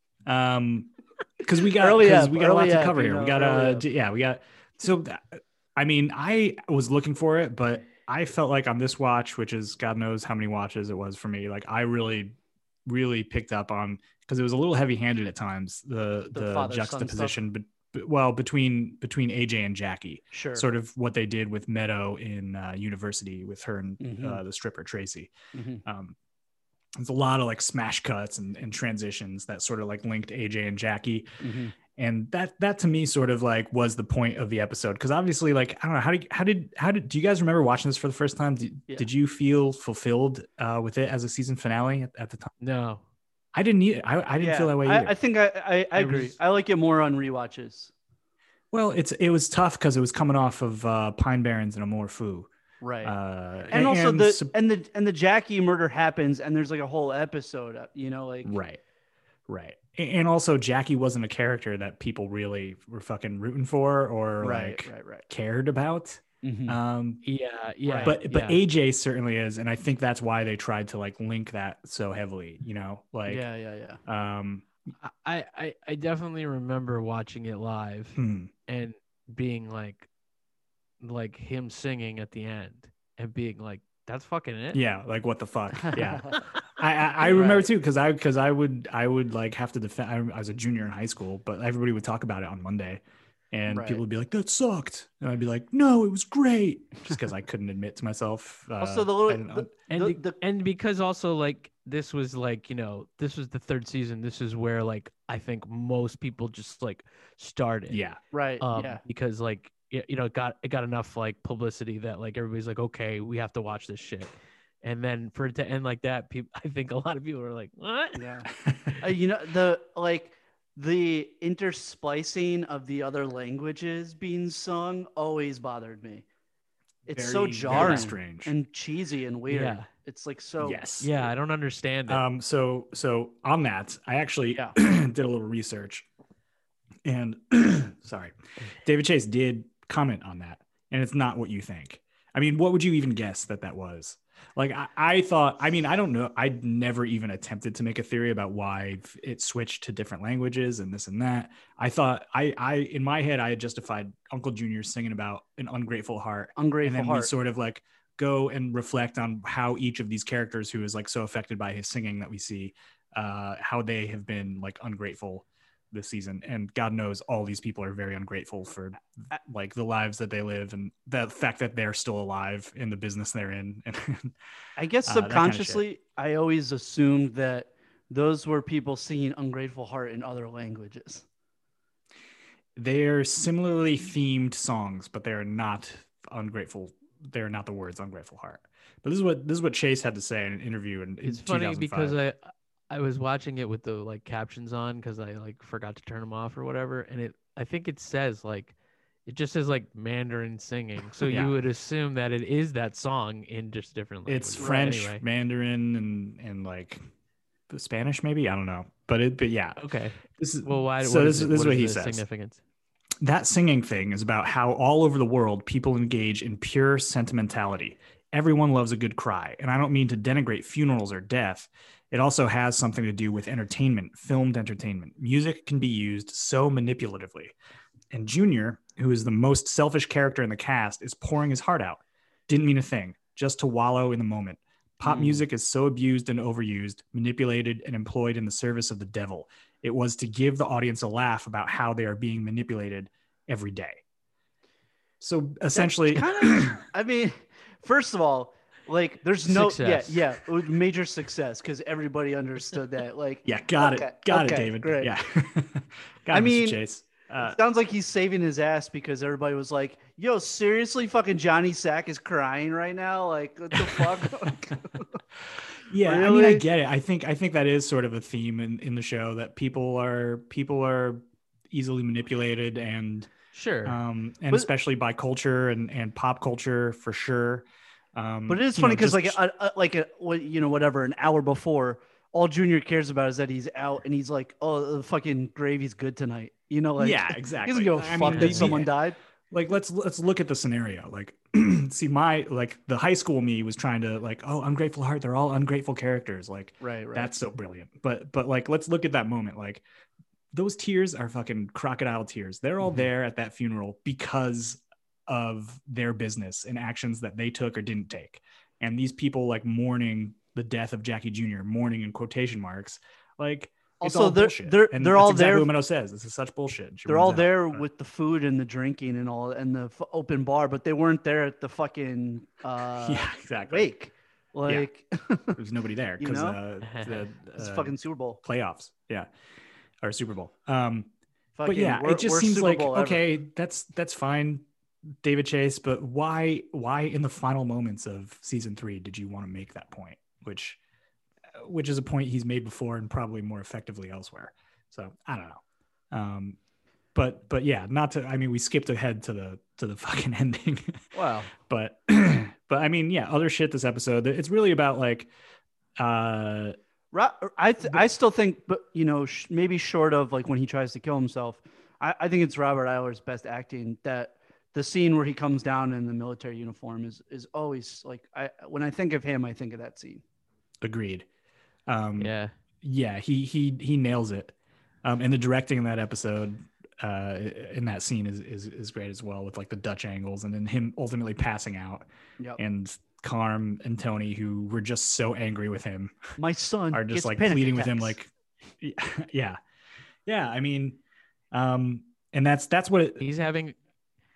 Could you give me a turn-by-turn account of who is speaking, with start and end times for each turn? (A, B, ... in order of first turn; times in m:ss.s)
0:00.2-0:25.3 A
0:01.7-0:03.8 B
0:16.3-0:17.4 B
0:20.3-0:20.7 B
0:24.0-0:24.4 B
0:25.5-0:25.8 B
0:25.8-0:26.2 A
0:27.0-0:31.3 A
0:31.4-0:31.7 B
0:31.9-0:42.5 A
0:42.6-0:43.0 C
0:43.5-0:45.1 A
0:44.4-0:47.9 B
0:46.0-0:46.3 C
0:48.7-0:52.5 A
0:52.8-0:53.1 B
0:53.0-0:54.5 A
0:53.7-0:58.6 B
0:58.4-0:58.8 A
0:59.5-1:07.2 A
1:04.4-1:05.2 B
1:06.4-1:06.8 B
1:07.2-1:08.6 C
1:07.8-1:08.2 B
1:08.0-1:13.4 A
1:13.3-1:14.0 B
1:14.0-1:14.7 A
1:15.0-1:18.2 C
1:18.2-1:18.5 A
1:18.7-1:20.1 C
1:21.0-1:24.8 C
1:24.7-1:39.7 A
1:25.8-1:26.2 B
1:27.2-1:27.7 B
1:33.7-1:34.0 B
1:38.8-1:40.4 B
1:39.9-1:48.0 C
1:47.9-1:48.2 A
1:48.3-1:49.0 B
1:48.6-1:58.3 C
1:58.1-1:58.5 B
1:58.6-1:58.9 A
1:59.0-2:06.2 B
2:07.1-2:08.5 A
2:07.1-2:10.8 B
2:07.7-2:08.1 C
2:09.5-2:09.9 C
2:10.6-2:11.3 A
2:11.0-2:12.2 C
2:12.1-2:16.1 A
2:17.0-2:54.3 A
2:36.6-2:37.3 B
2:54.8-3:01.2 B
2:55.0-2:55.8 A
3:02.8-3:12.2 A
3:11.2-3:18.7 C
3:19.2-3:25.2 C
3:21.2-3:21.5 A
3:24.3-3:27.0 A
3:24.6-3:25.0 B
3:27.7-3:29.8 A
3:29.8-3:32.6 C
3:30.4-3:32.2 A
3:33.2-3:47.5 A
3:48.1-4:04.0 A
3:55.0-3:55.4 C
4:05.2-4:06.8 A
4:05.7-4:15.1 B
4:09.4-4:10.3 C
4:13.4-4:17.6 A
4:16.3-4:16.8 B
4:17.4-4:25.2 B
4:23.7-4:24.5 A
4:25.9-4:33.3 A
4:26.0-4:26.6 B
4:33.5-4:34.0 C
4:33.8-4:39.4 A
4:38.5-4:49.2 B
4:47.0-4:48.9 A
4:48.2-4:48.8 C
4:49.5-4:59.8 A
4:56.8-4:57.3 B
5:00.5-5:17.8 A
5:14.0-5:15.7 B
5:17.1-5:25.6 B
5:23.0-5:23.9 A
5:25.6-5:29.3 A
5:26.2-5:26.6 B
5:26.8-5:27.2 C
5:27.5-5:28.4 B
5:30.0-5:31.1 A
5:31.6-5:33.2 B
5:31.6-5:34.6 A
5:35.2-5:40.8 A
5:41.6-5:46.6 A
5:47.1-5:51.0 A
5:51.1-5:51.5 B
5:51.5-5:55.3 A
5:56.0-5:56.8 A
5:57.1-6:10.2 B
6:10.8-6:11.3 A
6:11.9-6:22.0 A
6:12.2-6:12.5 C
6:22.6-6:26.3 A
6:26.4-6:28.1 B
6:26.9-6:29.6 A
6:30.2-6:31.0 A
6:31.5-6:33.2 A
6:33.2-6:33.7 C